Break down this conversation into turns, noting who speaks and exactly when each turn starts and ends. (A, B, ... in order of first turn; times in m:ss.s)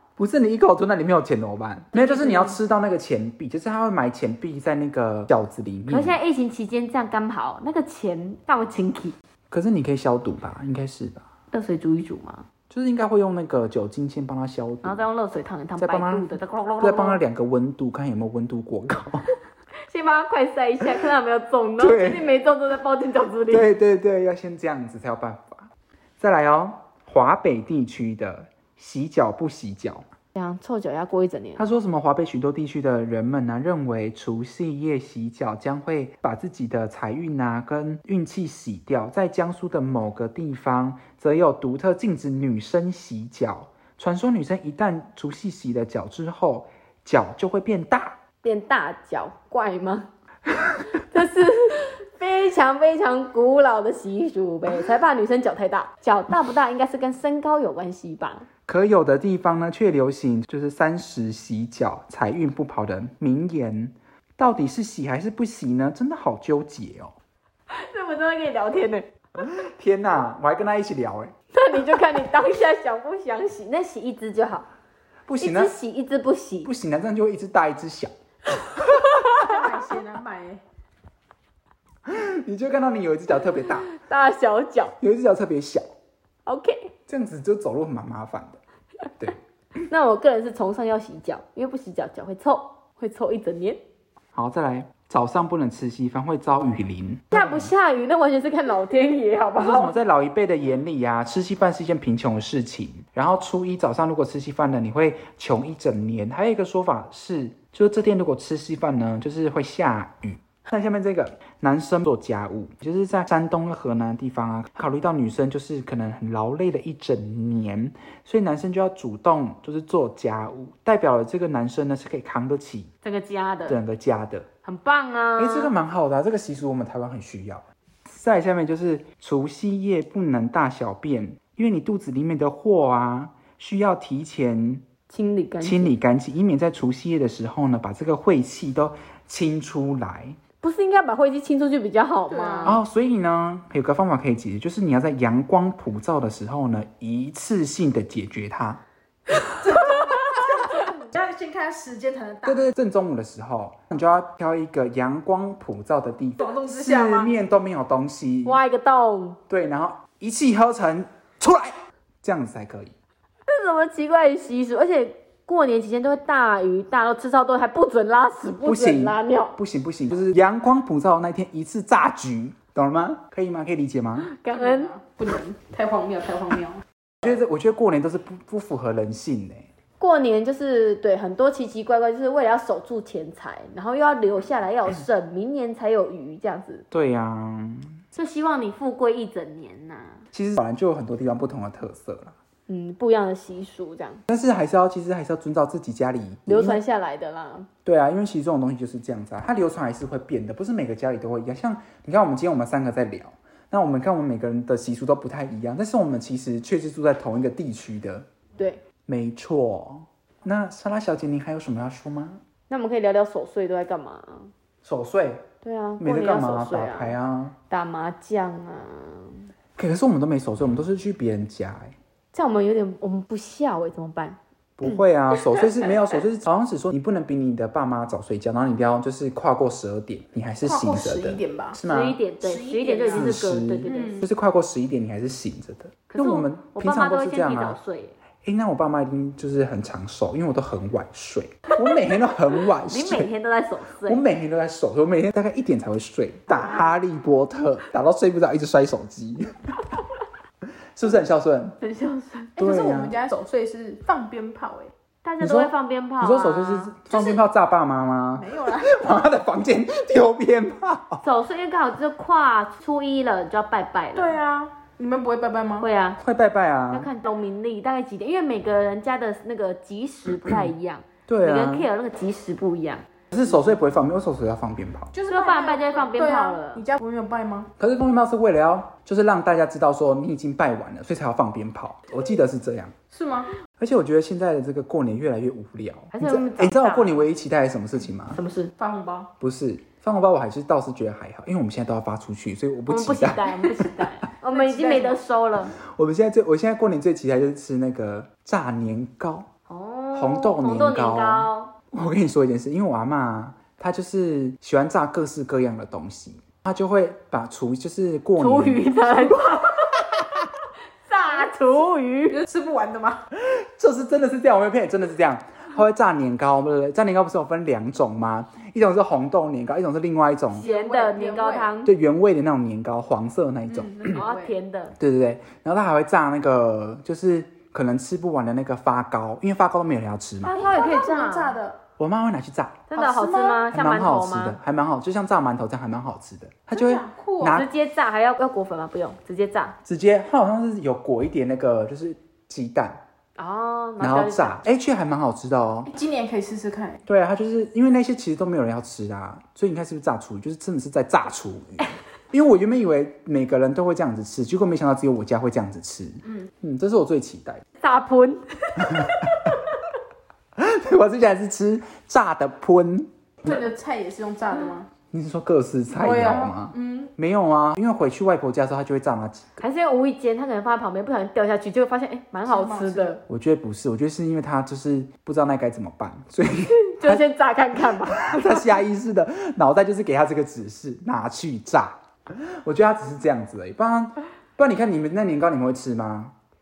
0:00.2-0:06.2 A
0:01.9-0:02.6 B
0:05.9-0:09.2 B
0:09.5-0:11.3 A
0:11.5-0:12.4 B
0:12.7-0:15.0 A
0:14.8-0:17.2 B
0:15.8-0:19.3 A
0:19.9-0:23.7 B
0:21.8-0:22.3 A
0:23.5-0:30.1 A
0:30.3-0:31.7 B
0:31.6-0:48.2 A
0:48.4-0:50.1 B
0:51.0-0:58.5 B
0:58.7-1:07.1 A
1:07.7-1:09.1 B
1:09.4-1:11.3 A
1:11.5-1:14.7 B
1:15.3-1:15.7 A
1:15.4-1:16.7 B
1:16.6-1:18.1 A
1:18.7-1:19.5 B
1:19.4-1:20.6 C
1:22.0-1:23.9 A
1:23.9-1:25.0 B
1:25.0-1:25.8 A
1:26.4-1:26.9 B
1:27.1-1:28.6 A
1:29.8-1:33.8 B
1:34.3-1:37.7 A
1:37.3-1:39.9 B
1:39.6-2:02.9 A
2:03.0-2:03.8 B
2:03.7-2:04.5 A
2:04.6-2:05.7 B
2:05.4-2:14.8 A
2:15.1-2:15.9 B
2:15.6-2:20.4 A
2:20.6-2:22.8 B
2:22.3-2:22.8 C
2:22.6-2:28.8 A
2:29.6-2:32.7 C
2:30.0-2:30.4 B
2:32.4-2:38.6 A
2:36.4-2:37.3 C
2:38.4-2:39.4 B
2:39.5-2:42.9 A
2:43.5-2:49.6 B
2:48.6-2:54.3 A
2:54.3-2:54.9 B
2:54.5-2:56.8 C
2:57.2-2:59.7 A
3:00.0-3:06.9 B
3:06.9-3:07.9 A
3:08.1-3:10.2 B
3:10.3-3:12.4 A
3:12.7-3:14.2 B
3:14.3-3:16.8 A
3:16.4-3:17.7 B
3:17.8-3:28.3 A
3:28.6-3:28.8 B
3:29.1-3:32.4 A
3:32.7-3:34.5 B
3:34.8-3:35.5 A
3:35.6-3:37.2 B
3:36.0-3:37.6 A
3:37.7-3:39.5 B
3:39.8-3:41.9 A
3:42.3-3:44.4 B
3:44.8-3:52.2 A
3:45.3-3:45.9 B
3:50.6-3:51.8 C
3:51.8-3:54.2 B
3:52.4-3:54.3 C
3:53.1-3:57.8 A
3:56.1-3:58.1 B
3:58.4-4:03.3 A
4:02.9-4:04.2 B
4:04.0-4:09.6 A
4:06.5-4:06.8 C
4:11.0-4:11.8 A
4:11.8-4:12.5 B
4:12.6-4:14.9 C
4:12.6-4:13.1 A
4:15.2-4:17.4 B
4:15.4-4:21.2 A
4:18.3-4:19.0 C
4:21.2-4:24.4 B
4:24.1-4:25.9 C
4:25.8-4:26.2 B
4:26.2-4:27.1 A
4:26.9-4:33.0 B
4:31.3-4:31.9 A
4:33.3-4:35.1 A
4:35.1-4:37.7 C
4:35.3-4:36.8 B
4:37.8-4:42.9 A
4:43.1-4:43.5 C
4:43.8-4:48.4 A
4:46.1-4:47.3 B
4:48.3-4:48.7 B
4:48.8-4:49.3 C
4:49.4-4:54.0 A
4:52.9-4:55.8 B
4:54.5-4:55.2 C
4:55.8-4:59.5 A
4:59.7-5:01.7 B
5:00.1-5:09.4 A
5:08.4-5:10.1 B
5:11.0-5:12.4 B
5:12.3-5:13.3 C
5:13.3-5:20.6 A
5:20.5-5:21.7 C
5:20.5-5:21.9 B
5:21.8-5:24.2 A
5:23.7-5:24.6 C
5:24.1-5:25.0 B
5:25.0-5:30.6 A
5:30.4-5:31.6 B
5:30.4-5:31.8 C
5:32.0-5:32.8 A
5:32.9-5:34.6 B
5:32.9-5:33.7 C
5:33.7-5:37.7 A
5:36.7-5:37.6 C
5:37.4-5:39.8 B
5:39.8-5:43.0 A
5:43.4-5:44.6 B
5:44.0-5:45.9 A
5:45.9-5:47.0 C
5:47.0-5:57.6 A
5:57.8-5:59.6 B
5:58.8-5:59.5 A
6:00.6-6:03.1 A
6:03.4-6:04.9 C
6:05.1-6:09.6 A
6:06.0-6:07.1 C
6:09.6-6:13.2 B
6:12.4-6:13.2 C
6:13.3-6:17.2 A
6:16.8-6:18.8 B
6:18.1-6:26.3 A